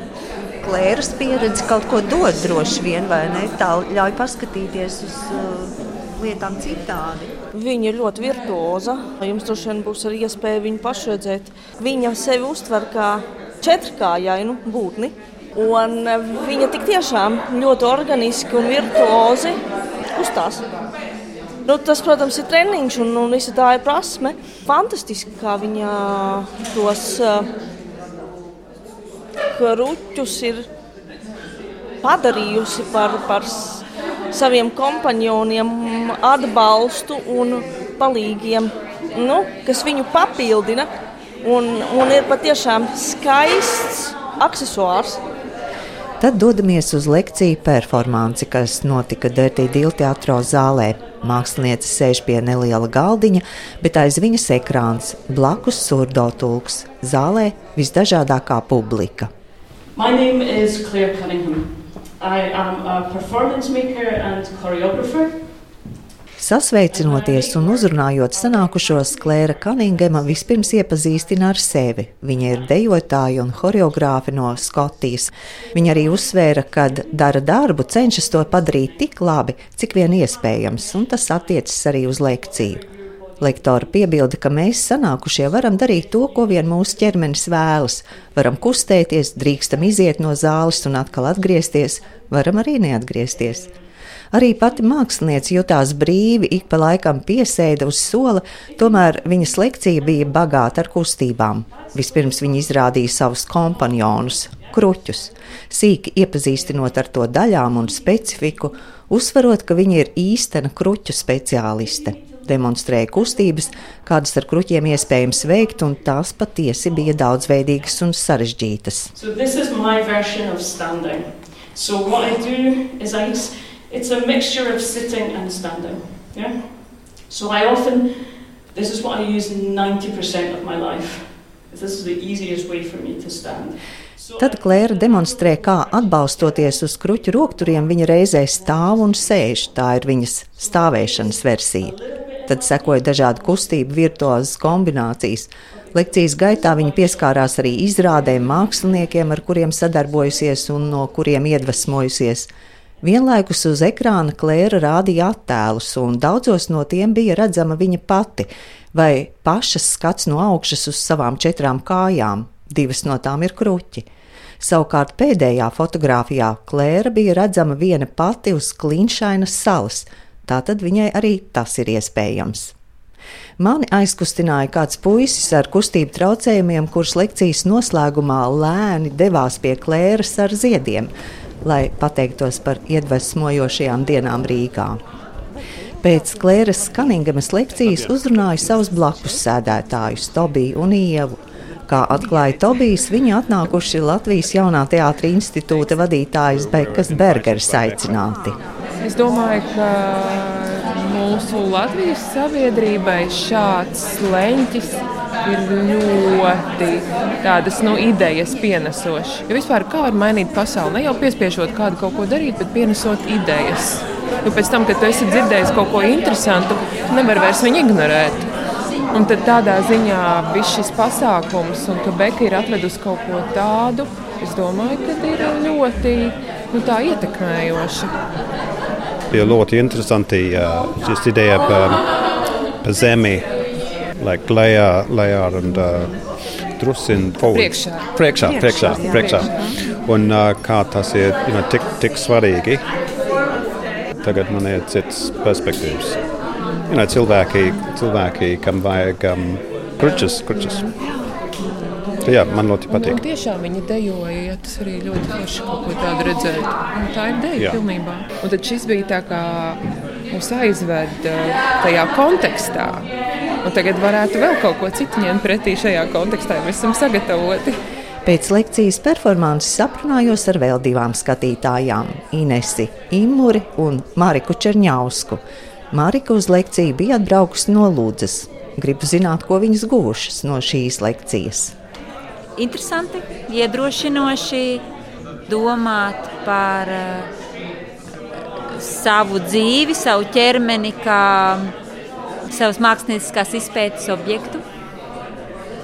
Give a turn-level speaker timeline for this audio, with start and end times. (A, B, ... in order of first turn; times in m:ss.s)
0:00.6-0:07.3 A
0:07.5-0:19.5 B
0:20.1-0:20.6 B
0:21.7-0:27.5 B
0:29.6-0:30.7 B
0:32.0-0:40.9 B
0:41.4-0:45.2 B
0:46.2-0:59.3 A
1:00.0-1:05.7 C
1:06.4-1:22.8 A
1:06.9-1:19.1 C
1:20.0-1:24.1 C
1:23.4-1:33.7 A
1:25.4-1:27.3 C
1:28.4-1:32.4 C
1:33.3-1:33.8 C
1:34.3-1:59.1 A
1:34.5-1:35.6 C
1:38.5-1:41.0 C
1:41.5-1:45.3 C
1:46.5-1:48.7 C
1:51.9-1:53.6 C
1:55.1-1:56.0 C
1:56.8-1:57.7 C
1:59.1-2:20.0 C
2:14.4-2:32.5 A
2:20.5-2:24.9 C
2:25.7-2:32.0 C
2:33.0-2:44.0 A
2:44.6-2:52.7 A
2:53.6-3:01.1 A
3:01.6-3:05.0 A
3:06.0-3:11.4 A
3:07.8-3:08.3 D
3:11.9-3:18.6 A
3:16.5-3:18.3 D
3:19.0-3:38.5 E
3:39.1-3:48.2 E
3:49.3-3:52.0 D
3:52.8-3:53.5 D
3:54.2-4:02.9 D
3:57.4-3:59.9 E
4:04.2-4:06.2 D
4:06.9-4:11.0 D
4:10.1-4:12.2 E
4:12.2-4:13.2 D
4:12.9-4:23.1 E
4:17.6-4:17.9 D
4:23.6-4:27.8 E
4:28.2-4:35.4 A
4:35.9-4:41.7 A
4:42.6-4:44.8 F
4:45.5-4:47.3 F
4:48.8-4:51.7 F
4:52.5-4:54.6 F